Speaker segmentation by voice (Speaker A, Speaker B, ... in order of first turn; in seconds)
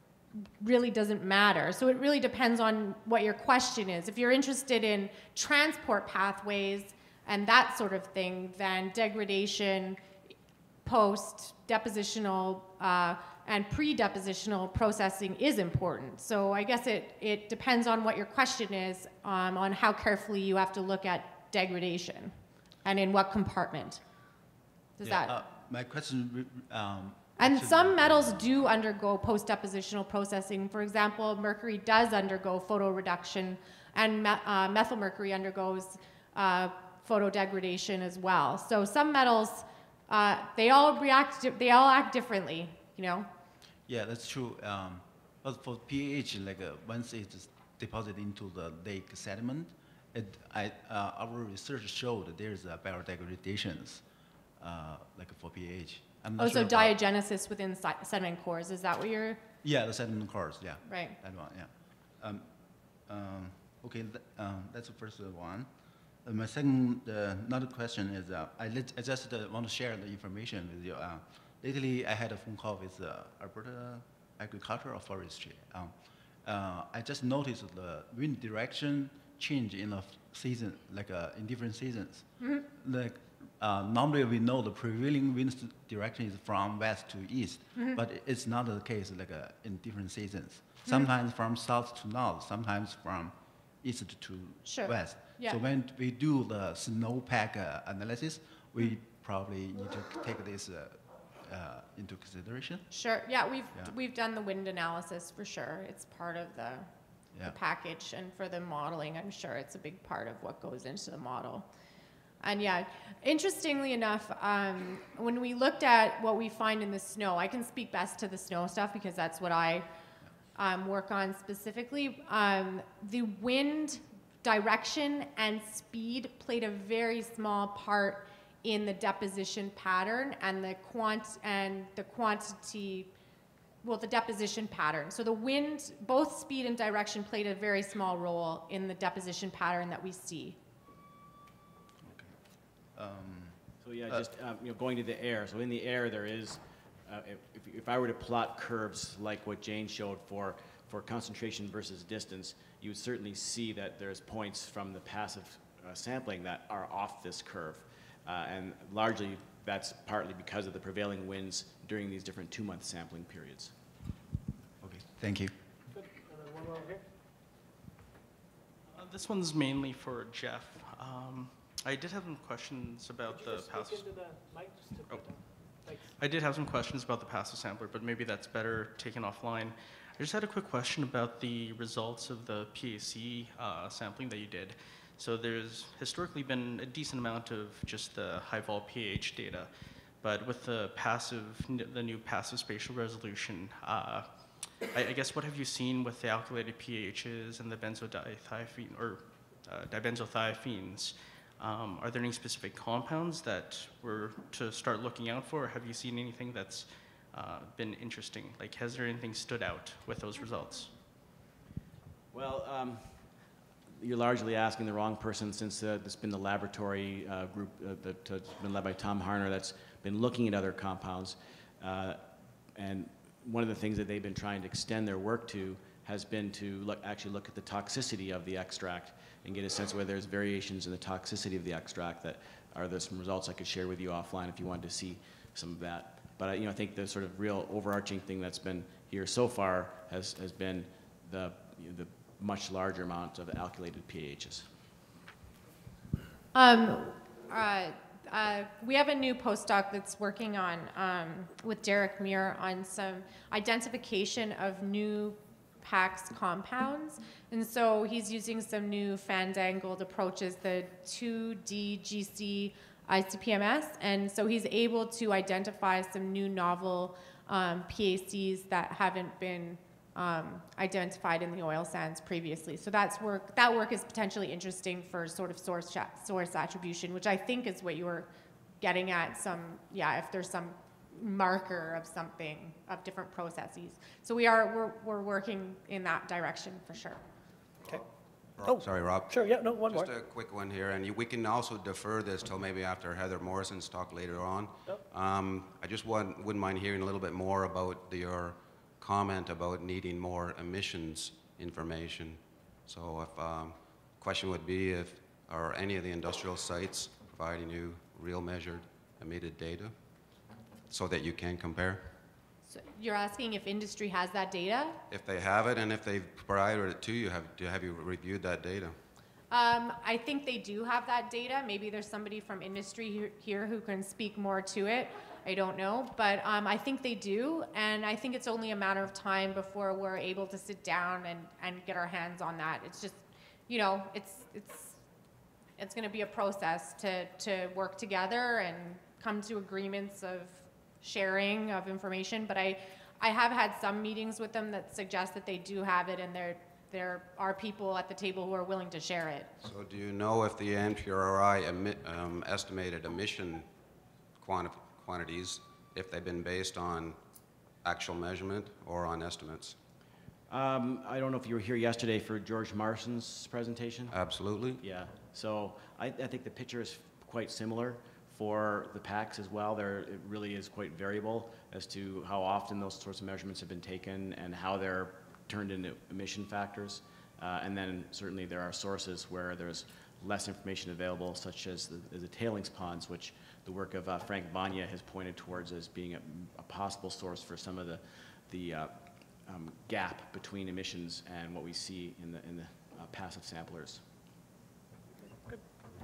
Speaker A: 0.6-10.0, 10.8-24.0, 25.0-25.3, 27.4-43.3, 56.4-59.4, 60.8-61.1, 94.6-95.6, 102.9-106.9, 107.4-111.7, 112.4-119.8, 120.5-133.1, 133.8-140.6, 246.5-278.3, 278.8-287.2, 312.7-315.0, 319.5-335.0, 335.8-349.5
Speaker B: 25.0-28.5, 43.9-54.0, 54.6-56.9, 59.6-62.5, 63.1-65.7, 66.2-75.9, 76.4-102.9, 142.0-142.4, 142.9-144.2, 164.8-165.5
Speaker C: 143.8-163.7, 212.3-213.0, 214.0-222.2, 222.8-244.7, 360.5-364.1, 364.8-388.9, 389.4-394.0
Speaker D: 165.9-167.0, 173.3-176.2, 288.6-290.1
Speaker E: 168.9-174.3, 175.1-189.7, 190.2-210.9
Speaker F: 288.6-309.9, 310.9-312.0, 315.1-318.9, 349.6-353.7, 354.4-357.2, 357.8-359.7, 364.1-364.8